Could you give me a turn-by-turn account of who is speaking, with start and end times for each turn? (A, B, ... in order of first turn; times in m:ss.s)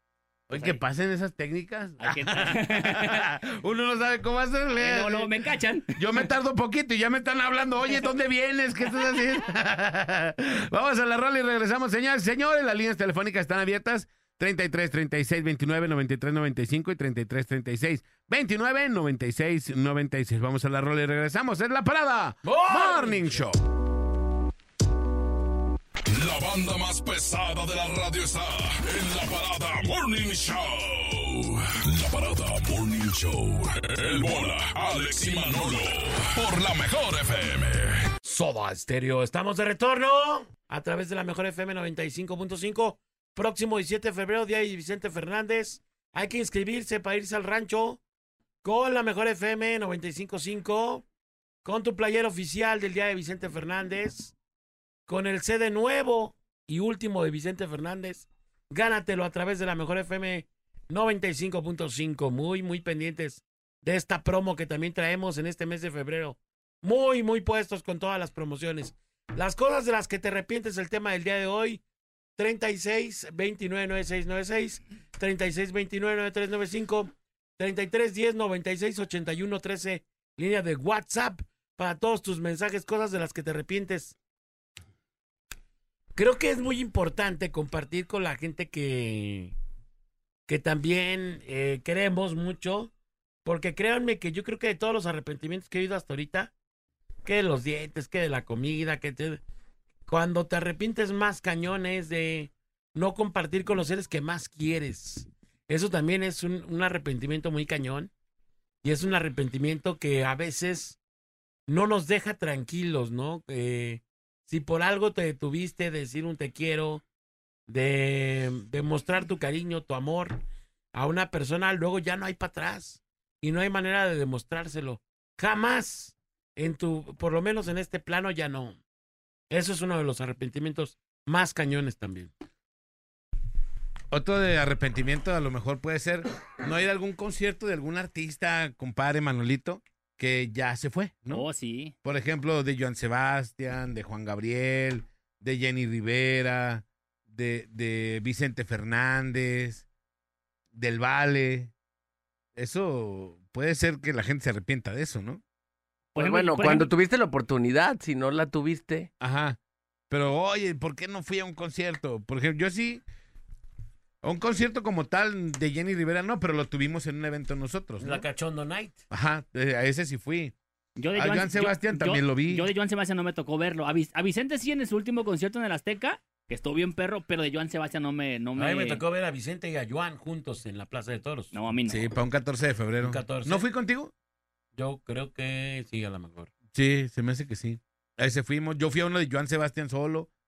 0:00.5-0:05.4 A
0:00.5-0:00.8 B
0:02.0-0:03.2 B
0:04.8-0:05.9 B
0:06.0-0:23.6 A
0:22.4-0:23.4 C
0:26.1-0:38.1 D
0:38.2-0:48.0 C
0:48.6-0:51.0 C
0:51.6-0:54.3 C
0:55.1-1:11.8 C
1:12.4-1:24.2 C
1:26.2-1:29.5 C
1:30.5-1:32.9 C
1:33.4-1:36.5 C
1:37.2-1:39.4 C
1:40.1-1:48.1 C
1:48.8-1:51.0 C
1:51.7-1:57.0 C
1:57.7-2:00.4 C
2:00.9-2:08.8 C
2:09.5-2:12.3 C
2:14.1-2:21.4 A
2:21.3-2:22.0 B
2:22.0-2:29.8 A
2:30.7-2:31.7 A
2:32.6-2:35.4 A
2:36.2-2:36.9 B
2:36.2-2:39.1 E
2:39.2-2:39.6 A
2:40.1-2:43.0 A
2:44.2-2:48.2 A
2:48.0-2:49.0 C
2:49.1-2:50.6 A
2:51.0-2:59.0 B
2:51.2-2:52.7 A
2:58.6-3:01.5 C
3:01.5-3:02.1 B
3:01.9-3:04.1 A
3:03.0-3:03.7 C
3:04.8-3:06.5 C
3:06.7-3:10.3 A